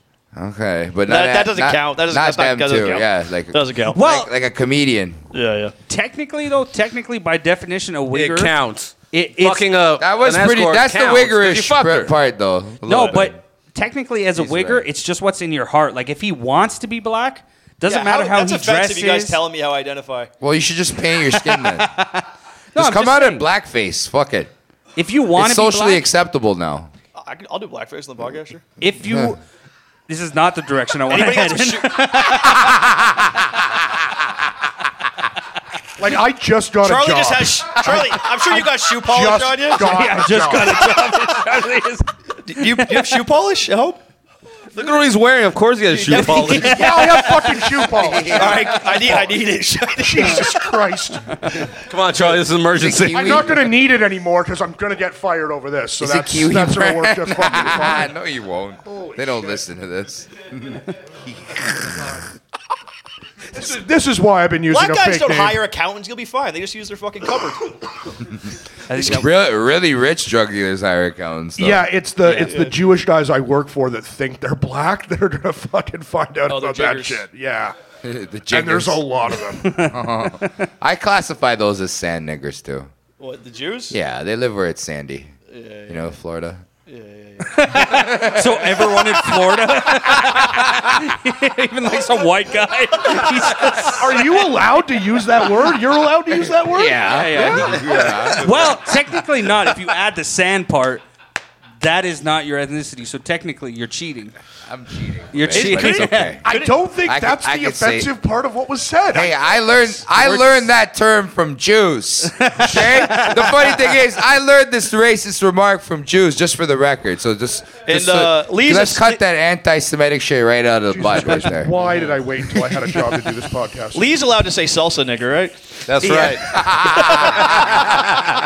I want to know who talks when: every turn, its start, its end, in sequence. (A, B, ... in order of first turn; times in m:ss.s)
0:00.3-0:05.2 A
0:01.1-0:04.0 B
0:03.9-0:04.3 C
0:05.3-0:05.7 B
0:05.9-0:08.6 C
0:08.1-0:12.1 D
0:09.1-0:09.7 C
0:10.0-0:13.4 A
0:12.8-0:19.4 C
0:12.9-0:13.1 B
0:14.4-0:14.8 A
0:17.8-0:20.3 B
0:20.4-0:22.0 A
0:21.3-0:23.5 C
0:22.7-0:24.5 A
0:25.0-0:26.1 C
0:25.3-0:26.9 A
0:27.2-0:28.6 B
0:28.8-0:29.4 C
0:30.1-0:32.7 C
0:31.1-0:32.6 B
0:32.8-0:33.1 A
0:36.0-0:40.9 E
0:36.8-0:40.2 B
0:39.7-0:42.1 C
0:42.4-0:44.0 B
0:44.7-0:46.8 D
0:45.9-0:47.6 B
0:46.3-0:47.3 C
0:46.5-0:48.7 E
0:47.8-0:49.2 A
0:48.3-0:50.6 B
0:50.0-0:51.7 E
0:51.8-0:53.5 D
0:52.7-0:53.7 A
0:53.1-0:58.1 E
0:56.0-1:02.2 A
0:58.8-0:59.6 E
1:03.5-1:05.6 E
1:04.7-1:07.8 B
1:08.9-1:09.3 C
1:08.9-1:11.9 A
1:11.6-1:17.8 E
1:12.3-1:12.8 B
1:16.5-1:17.2 B
1:18.0-1:19.0 A
1:18.5-1:19.7 E
1:19.6-1:20.0 C
1:19.7-1:22.9 A
1:23.2-1:23.9 B
1:23.9-1:25.3 A
1:25.5-1:26.1 B
1:25.9-1:26.6 A
1:26.9-1:28.0 B
1:27.5-1:34.3 C
1:27.8-1:28.7 A
1:33.9-1:37.0 E
1:36.7-1:38.8 A
1:37.0-1:41.0 C
1:41.8-1:44.3 C
1:44.7-1:46.5 A
1:45.3-1:46.4 C
1:46.4-1:49.4 E
1:46.5-1:46.8 B
1:47.0-1:48.1 A
1:49.1-2:01.7 A
1:50.2-1:50.6 C
1:52.4-1:53.7 C
1:57.8-1:59.2 B
2:00.9-2:04.2 E
2:03.9-2:07.9 B
2:05.9-2:06.6 D
2:06.4-2:08.2 A